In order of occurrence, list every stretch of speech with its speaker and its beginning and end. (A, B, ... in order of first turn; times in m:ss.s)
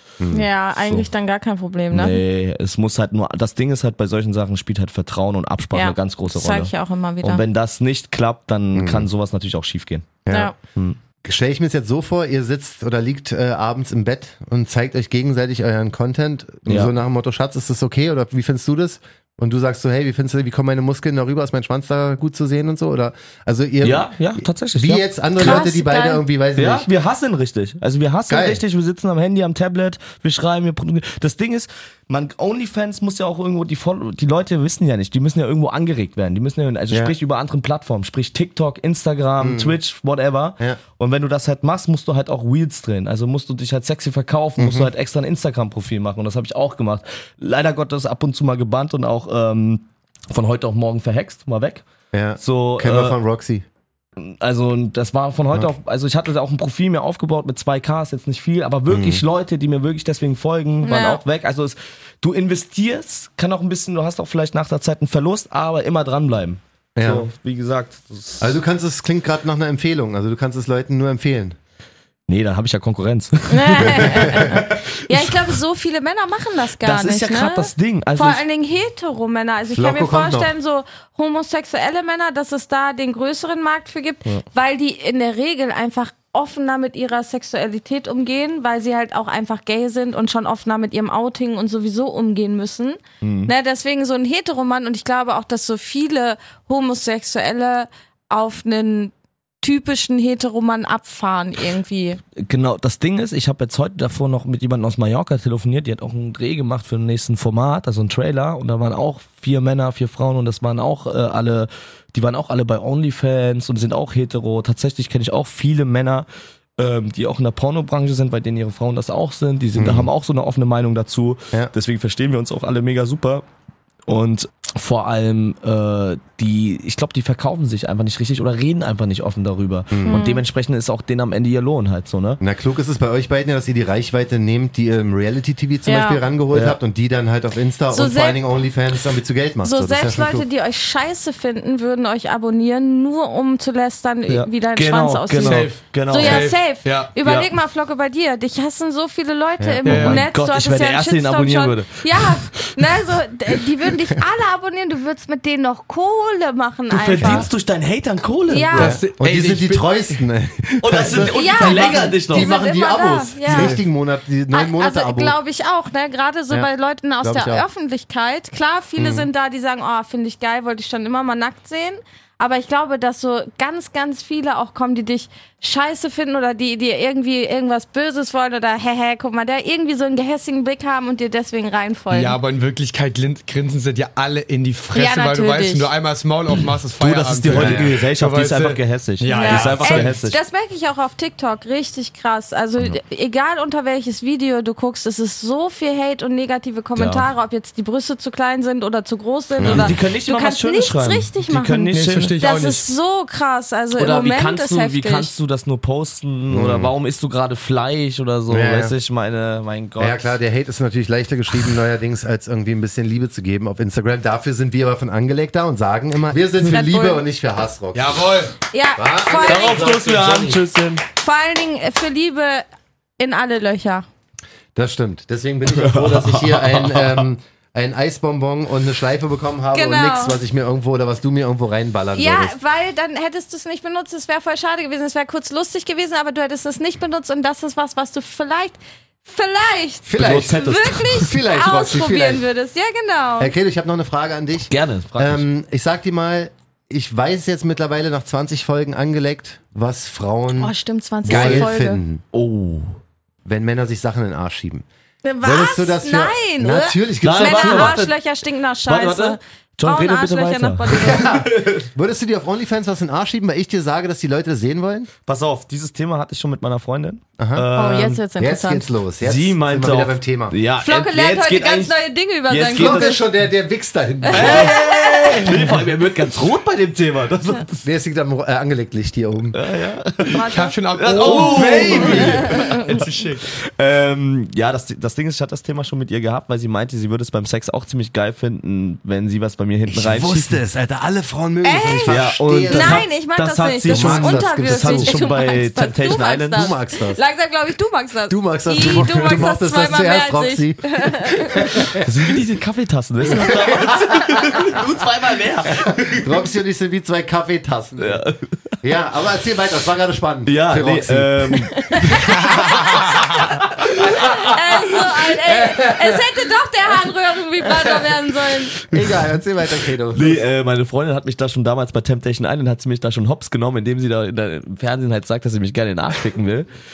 0:00.2-0:00.5 A
0:00.3-0:02.2 B
0:01.9-0:10.2 C
0:05.7-0:07.4 B
0:08.7-0:09.1 A
0:10.2-0:10.5 A
0:10.3-0:10.6 B
0:11.2-0:24.1 A
0:16.7-0:16.9 C
0:23.8-0:25.7 C
0:24.8-0:26.9 A
0:25.4-0:26.2 B
0:26.6-0:51.8 C
0:28.3-0:28.6 A
0:39.4-0:39.8 A
0:44.6-0:44.9 A
0:52.1-0:53.6 A
0:52.4-0:53.2 C
0:54.2-1:08.6 C
0:58.9-0:59.2 A
1:00.8-1:01.2 B
1:07.0-1:07.2 A
1:08.4-1:11.6 A
1:12.3-1:15.4 C
1:13.5-1:42.2 B
1:14.0-1:14.5 A
1:16.8-1:18.4 C
1:19.7-1:20.5 A
1:33.2-1:33.5 C
1:42.4-1:56.3 C
1:56.8-2:03.4 C
1:59.8-2:00.1 A
2:04.1-2:12.4 C
2:09.9-2:10.2 A
2:10.1-2:10.4 B
2:12.4-2:20.4 A
2:15.9-2:16.2 B
2:16.5-2:16.8 C
2:17.9-2:18.4 B
2:19.6-2:37.5 B
2:24.3-2:26.6 C
2:25.4-2:27.2 D
2:29.6-2:29.8 A
2:29.8-2:30.2 D
2:29.8-2:32.7 C
2:36.9-2:39.0 C
2:38.5-2:39.0 B
2:38.8-2:40.2 D
2:38.8-2:45.4 A
2:40.8-2:42.5 C
2:41.3-2:43.8 B
2:43.5-2:43.8 C
2:44.5-3:02.4 B
2:47.2-2:47.6 A
2:49.0-2:49.3 A
3:02.1-3:10.2 D
3:04.9-3:05.9 B
3:06.5-3:10.4 C
3:07.5-3:07.9 A
3:09.3-3:25.3 B
3:17.0-3:17.2 C
3:19.6-3:20.0 A
3:19.6-3:22.4 C
3:21.9-3:22.9 D
3:23.9-3:30.2 C
3:26.5-3:26.9 A
3:28.5-3:28.9 A
3:30.0-3:38.3 A
3:36.7-3:37.2 B
3:37.9-3:38.5 D
3:38.7-3:39.9 B
3:39.0-3:40.6 A
3:39.4-3:41.0 C
3:41.2-3:42.7 B
3:43.2-3:44.1 B
3:44.8-3:52.6 A
3:45.8-3:47.2 C
3:49.7-3:50.4 B
3:52.2-4:03.5 B
4:00.1-4:02.4 A
4:00.2-4:01.2 C
4:03.4-4:10.7 A
4:04.7-4:05.4 C
4:10.6-4:12.0 B
4:11.2-4:11.7 C
4:11.2-4:12.2 A
4:12.3-4:13.0 C
4:13.4-4:14.8 A
4:15.2-4:21.3 B
4:15.4-4:18.1 A
4:17.2-4:18.1 C
4:18.9-4:21.9 C
4:20.9-4:25.1 A
4:25.3-4:28.2 C
4:27.4-4:27.7 A
4:27.8-4:28.9 B
4:28.4-4:30.6 A
4:29.2-4:32.0 C
4:30.8-4:33.2 B
4:32.5-4:33.2 C
4:32.7-4:34.8 A
4:34.3-4:35.5 B
4:34.3-4:37.8 C
4:37.8-4:39.6 A
4:39.5-4:50.6 C
4:40.3-4:43.0 B
4:40.5-4:43.4 D
4:41.6-4:42.4 A
4:49.9-4:53.1 A
4:51.6-5:01.9 B
4:52.1-4:56.7 C
4:53.9-4:55.2 A
4:56.5-4:57.2 A
4:58.3-5:02.1 A
5:02.0-5:06.4 C
5:03.3-5:04.5 A
5:05.7-5:08.2 A
5:08.0-5:08.8 C
5:08.8-5:16.2 A
5:10.5-5:13.9 C
5:11.8-5:13.2 B
5:14.0-5:18.7 B
5:18.9-5:20.4 A
5:20.1-5:26.7 C